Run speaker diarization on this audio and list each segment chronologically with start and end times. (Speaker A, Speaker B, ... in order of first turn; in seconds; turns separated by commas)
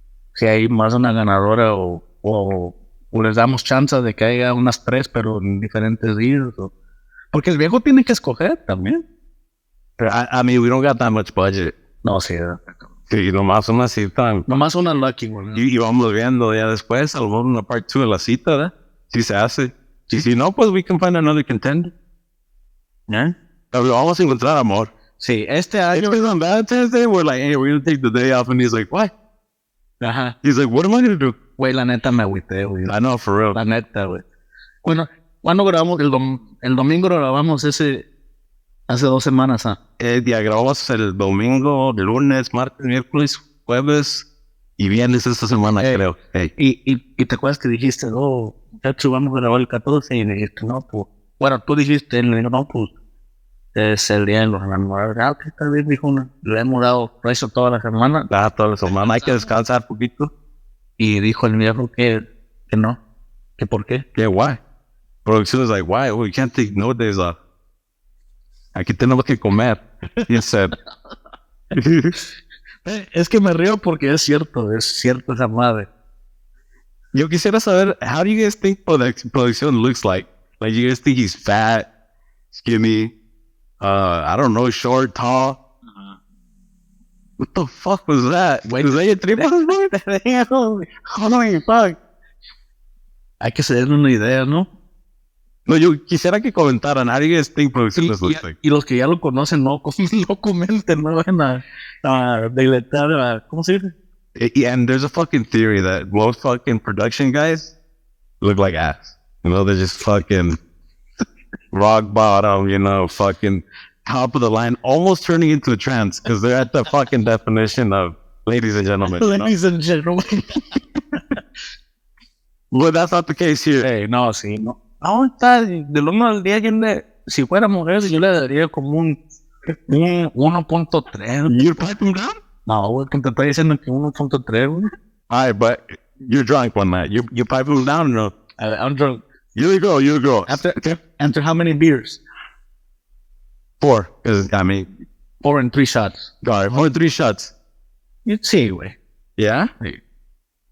Speaker A: 0.3-6.7, Speaker A: 7.3-9.0, Speaker B: 10.0-11.7, Speaker A: 12.0-12.6, Speaker B: 13.1-14.5, Speaker A: 14.5-15.6, Speaker B: 15.5-21.9, Speaker A: 23.1-23.3, Speaker B: 23.7-24.9, Speaker A: 25.2-26.1, Speaker B: 25.9-29.1, Speaker A: 30.0-30.3, Speaker B: 30.4-31.4, Speaker A: 31.6-32.9, Speaker B: 32.9-33.6, Speaker A: 33.5-34.2, Speaker A: 34.8-38.0, Speaker A: 38.9-39.8, Speaker B: 40.0-44.2, Speaker B: 44.8-46.5, Speaker A: 46.6-52.9, Speaker A: 53.7-58.3, Speaker B: 58.3-60.3, Speaker A: 61.0-63.0, Speaker A: 63.6-64.0, Speaker B: 64.1-64.6, Speaker B: 65.2-67.4, Speaker B: 68.7-70.8, Speaker B: 71.7-72.2, Speaker A: 72.8-75.9, Speaker B: 77.1-81.9, Speaker B: 82.5-83.1, Speaker B: 83.8-85.6, Speaker B: 87.4-90.0, Speaker A: 88.7-90.9, Speaker B: 90.9-92.0, Speaker A: 93.4-94.7, Speaker B: 95.7-98.5, Speaker A: 98.0-103.9, Speaker B: 104.3-107.7, Speaker B: 108.4-110.6, Speaker B: 111.7-119.5, Speaker A: 119.1-121.4, Speaker B: 122.7-123.8, Speaker A: 123.8-131.6, Speaker B: 131.5-132.4, Speaker A: 132.7-134.9, Speaker B: 135.3-138.3, Speaker A: 138.6-139.2, Speaker B: 139.5-140.6, Speaker A: 140.5-142.2, Speaker B: 143.8-144.9, Speaker A: 145.4-146.3, Speaker B: 146.4-147.5, Speaker A: 148.2-148.9, Speaker B: 149.4-149.7